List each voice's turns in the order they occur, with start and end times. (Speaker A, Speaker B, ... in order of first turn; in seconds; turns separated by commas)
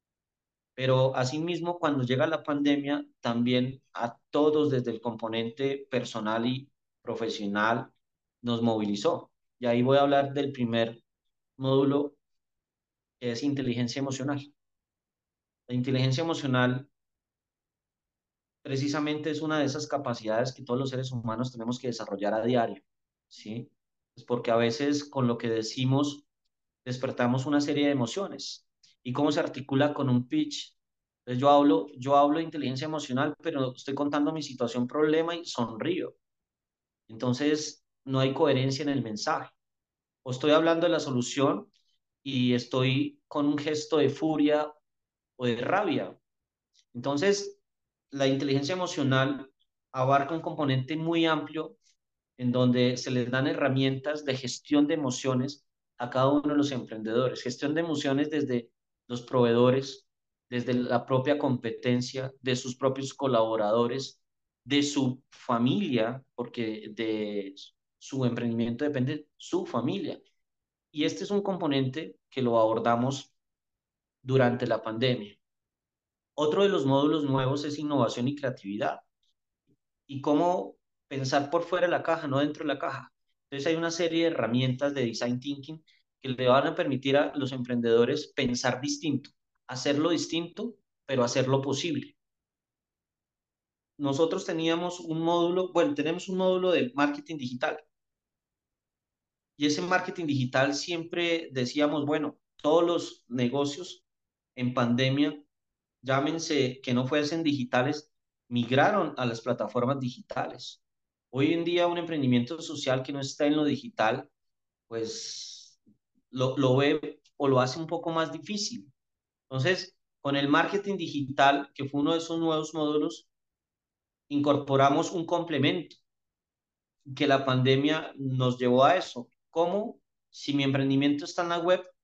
Speaker A: 0.8-11.0, Speaker A: 11.6-12.2, Speaker A: 13.2-14.5, Speaker A: 15.7-16.9, Speaker A: 18.6-26.2, Speaker A: 26.8-30.7, Speaker A: 31.2-36.1, Speaker A: 37.1-39.5, Speaker A: 40.2-41.7, Speaker A: 42.2-44.7, Speaker A: 45.4-46.2, Speaker A: 46.9-47.6, Speaker A: 48.1-51.8, Speaker A: 52.4-70.2, Speaker A: 70.9-73.3, Speaker A: 74.2-75.4, Speaker A: 76.4-79.0, Speaker A: 80.1-92.1, Speaker A: 94.0-97.8, Speaker A: 99.6-104.0, Speaker A: 104.5-105.4, Speaker A: 106.0-110.8, Speaker A: 111.3-114.3, Speaker A: 114.9-115.8, Speaker A: 116.3-118.9, Speaker A: 119.5-123.3, Speaker A: 124.3-126.0, Speaker A: 127.0-131.9